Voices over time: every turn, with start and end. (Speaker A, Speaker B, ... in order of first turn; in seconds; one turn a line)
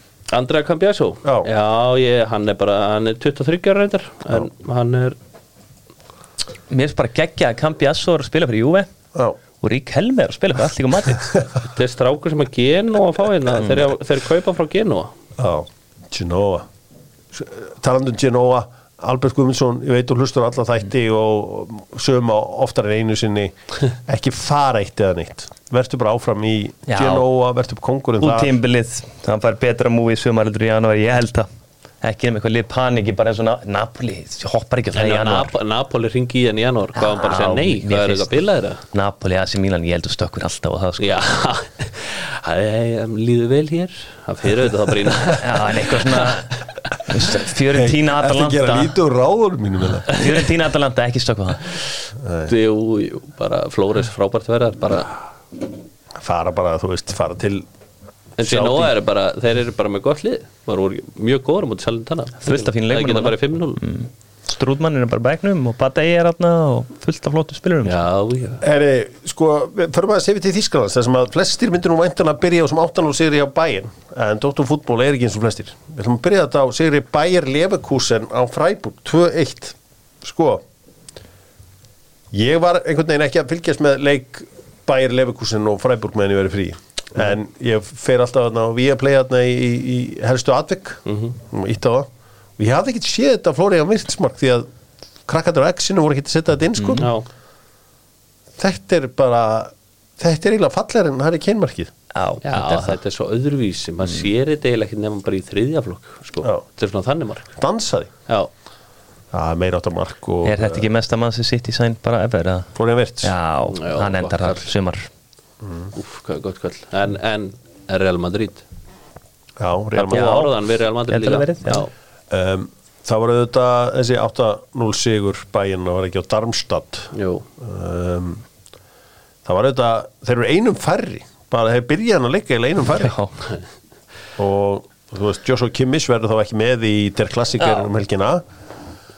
Speaker A: 0.3-5.2
Speaker B: 1.2-1.5
Speaker C: 6.7-8.9
Speaker C: 9.6-11.3
Speaker A: 11.7-15.1
Speaker B: 15.4-16.7
Speaker B: 17.3-28.6
Speaker C: 26.9-27.3
Speaker C: 28.2-31.5
Speaker C: 32.0-35.5
Speaker A: 34.9-38.8
Speaker C: 37.0-38.3
Speaker C: 38.9-41.2
Speaker A: 41.0-46.3
Speaker C: 45.4-46.5
Speaker C: 47.1-48.9
Speaker B: 47.7-50.1
Speaker C: 50.1-51.7
Speaker B: 52.2-52.5
Speaker A: 52.5-55.2
Speaker B: 56.2-57.7
Speaker B: 58.4-58.9
Speaker A: 58.4-63.8
Speaker C: 62.4-68.0
Speaker A: 67.8-68.6
Speaker B: 68.6-80.6
Speaker B: 82.3-94.7
Speaker A: 91.1-91.4
Speaker B: 95.3-97.0
Speaker C: 96.8-97.1
Speaker A: 97.0-97.3
Speaker B: 98.6-101.9
Speaker C: 102.1-103.0
Speaker A: 102.4-107.5
Speaker B: 107.6-108.1
Speaker B: 109.3-110.9
Speaker C: 110.4-115.1
Speaker B: 112.8-113.3
Speaker A: 113.7-114.6
Speaker B: 115.6-115.9
Speaker A: 116.0-118.6
Speaker B: 119.6-120.5
Speaker A: 120.0-121.9
Speaker C: 120.1-120.5
Speaker C: 121.1-121.8
Speaker B: 122.3-128.4
Speaker A: 127.1-127.5
Speaker B: 129.4-133.1
Speaker C: 133.0-133.3
Speaker B: 134.4-138.4